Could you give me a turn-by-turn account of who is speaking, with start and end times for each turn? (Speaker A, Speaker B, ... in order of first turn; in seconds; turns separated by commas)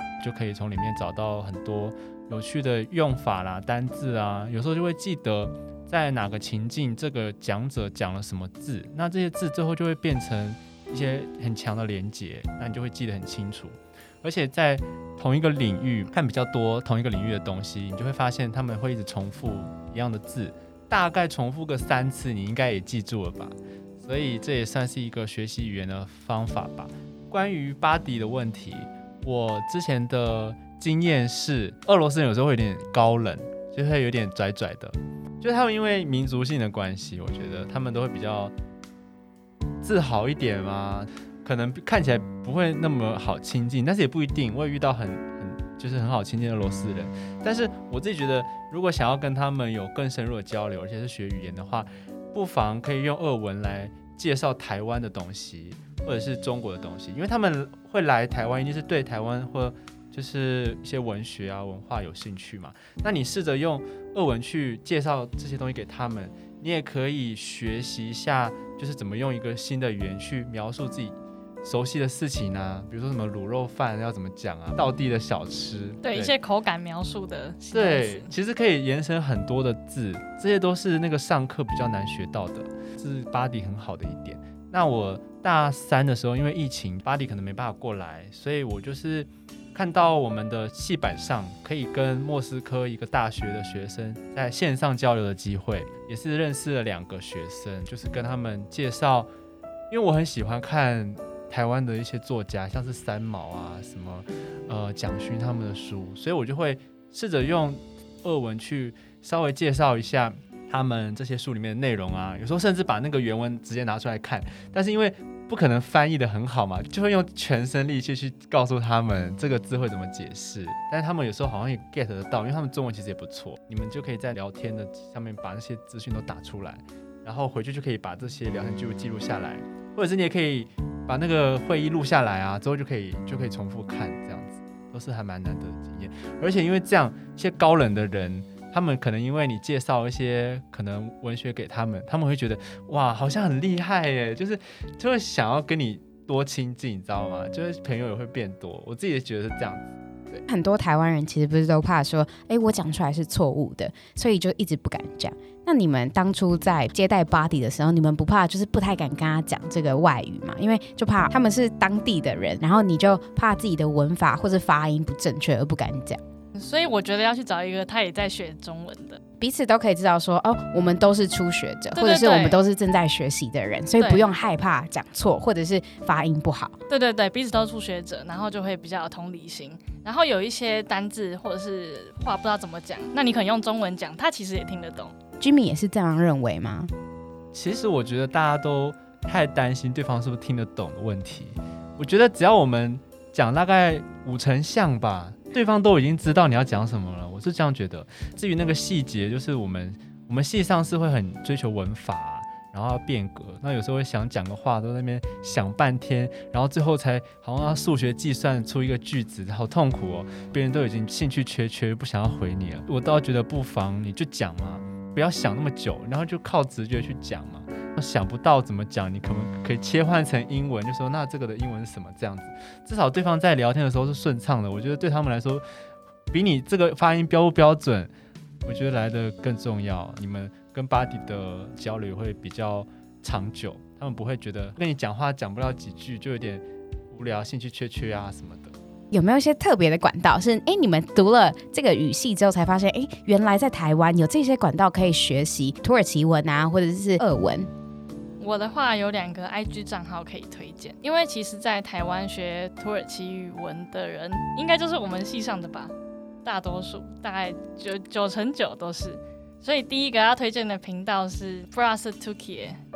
Speaker A: 0.2-38.5, Speaker A: 39.8-76.3, Speaker B: 76.0-78.3, Speaker A: 77.7-99.3, Speaker A: 99.9-150.4, Speaker C: 150.5-166.2, Speaker B: 166.5-169.2, Speaker C: 169.4-176.8, Speaker B: 171.9-172.6, Speaker B: 174.0-174.3, Speaker B: 176.9-185.1, Speaker C: 185.4-186.9, Speaker A: 187.5-225.6, Speaker A: 226.3-228.1, Speaker A: 228.7-238.7, Speaker C: 239.1-247.7, Speaker B: 248.4-255.9, Speaker B: 256.4-262.8